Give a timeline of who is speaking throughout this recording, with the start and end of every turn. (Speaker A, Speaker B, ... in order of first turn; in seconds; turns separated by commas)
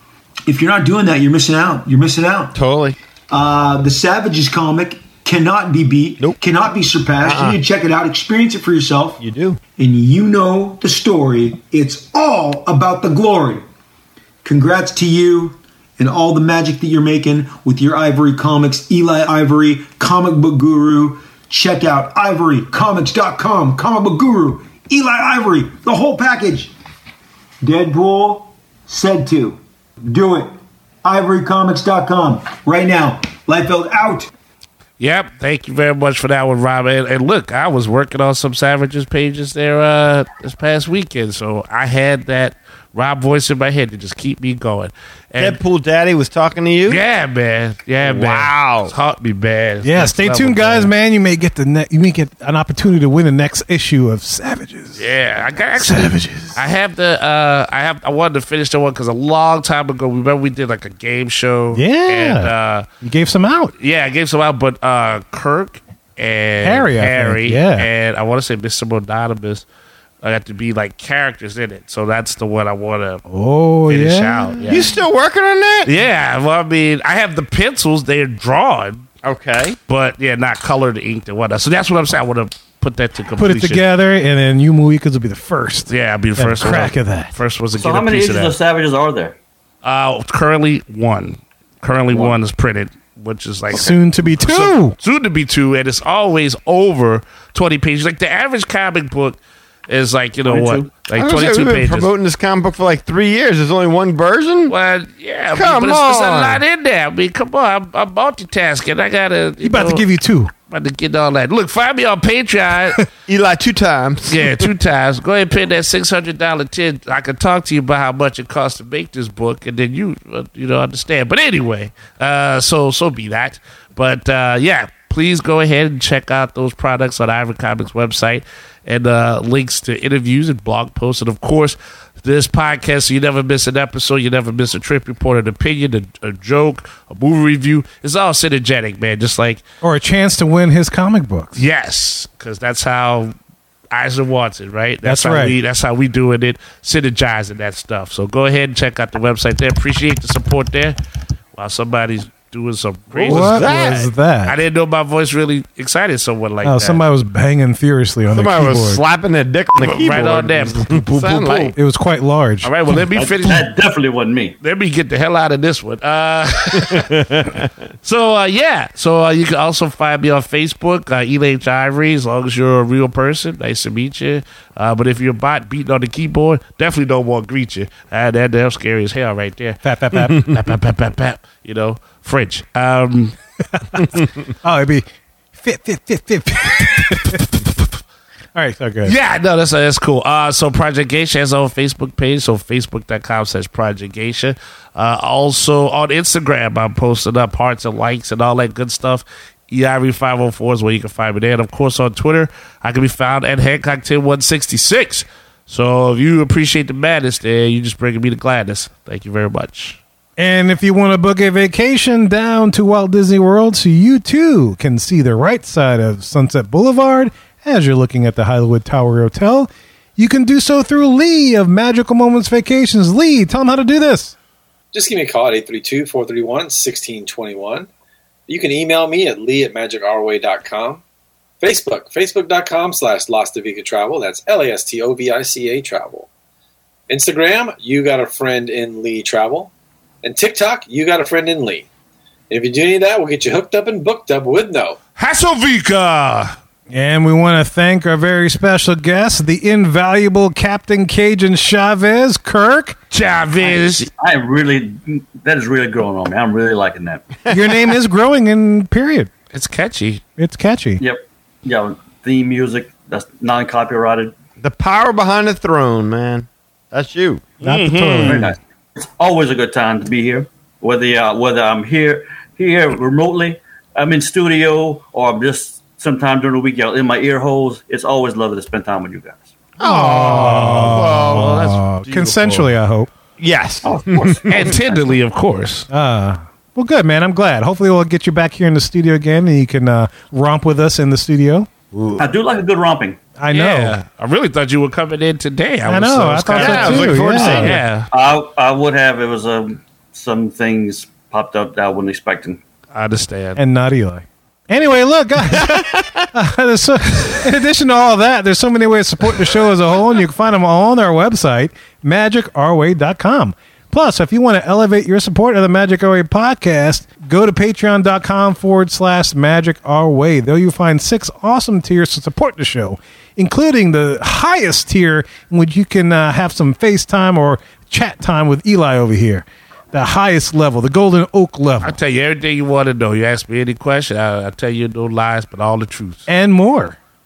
Speaker A: 0.5-2.6, Speaker B: 2.5-3.0, Speaker A: 3.3-9.2, Speaker B: 7.2-7.6, Speaker B: 9.2-9.6, Speaker A: 9.8-13.6, Speaker A: 14.4-26.7, Speaker A: 27.6-30.5, Speaker A: 31.0-34.3, Speaker C: 35.0-45.6, Speaker B: 45.4-47.0, Speaker C: 46.9-50.9, Speaker B: 48.0-48.9, Speaker D: 49.8-55.0, Speaker C: 55.0-62.9, Speaker D: 55.8-56.6, Speaker D: 61.7-62.5, Speaker D: 63.0-63.7, Speaker C: 63.8-69.7, Speaker D: 66.6-67.9, Speaker C: 70.2-73.2, Speaker D: 73.3-74.8, Speaker C: 73.9-74.9, Speaker B: 74.7-76.0, Speaker C: 75.8-79.1, Speaker B: 79.2-79.8, Speaker C: 79.9-83.8, Speaker D: 83.4-87.3, Speaker C: 85.9-88.6, Speaker E: 87.7-89.3, Speaker C: 89.8-102.1, Speaker E: 92.1-92.4, Speaker D: 93.7-95.0, Speaker E: 100.5-100.9, Speaker B: 101.1-104.8, Speaker C: 104.7-110.1, Speaker B: 105.5-106.6, Speaker D: 109.6-110.5, Speaker C: 110.7-113.1, Speaker B: 113.3-114.7, Speaker C: 114.3-139.6, Speaker D: 139.8-141.6, Speaker C: 141.6-143.3, Speaker C: 143.9-151.0, Speaker D: 145.0-145.5, Speaker C: 151.6-153.8, Speaker B: 153.1-154.1, Speaker D: 153.3-154.6, Speaker C: 154.5-157.0, Speaker D: 156.6-159.0, Speaker B: 158.3-161.8, Speaker C: 159.8-161.8, Speaker D: 161.8-162.7, Speaker C: 162.6-163.7, Speaker E: 163.1-164.6, Speaker C: 164.6-167.2, Speaker B: 166.7-167.7, Speaker C: 168.0-183.4, Speaker D: 179.8-180.5, Speaker D: 184.6-185.0, Speaker D: 185.6-187.4, Speaker D: 188.6-189.1, Speaker C: 189.0-210.0, Speaker D: 210.4-224.3, Speaker F: 224.9-227.9, Speaker F: 228.5-231.0, Speaker F: 231.6-236.3, Speaker F: 237.1-239.7, Speaker F: 240.2-241.9, Speaker F: 242.5-245.0, Speaker C: 245.2-246.6, Speaker D: 246.9-253.0, Speaker C: 253.1-254.1, Speaker E: 253.6-257.3, Speaker D: 257.5-259.3, Speaker C: 259.5-260.2, Speaker D: 260.4-261.0, Speaker E: 261.0-264.3, Speaker B: 264.6-267.5, Speaker C: 267.6-268.5, Speaker D: 267.6-268.5, Speaker E: 268.2-279.5, Speaker B: 279.8-281.7, Speaker D: 279.8-283.1, Speaker C: 279.9-282.7, Speaker B: 283.4-284.7, Speaker E: 283.8-285.1, Speaker C: 284.5-285.9, Speaker D: 285.9-291.7, Speaker E: 292.2-293.2, Speaker D: 293.4-294.0, Speaker C: 293.5-298.1, Speaker D: 295.9-297.8, Speaker B: 296.5-297.8, Speaker E: 297.4-302.6, Speaker C: 302.9-303.6, Speaker D: 303.6-332.0, Speaker B: 305.5-306.3, Speaker C: 331.8-336.3, Speaker D: 336.3-337.0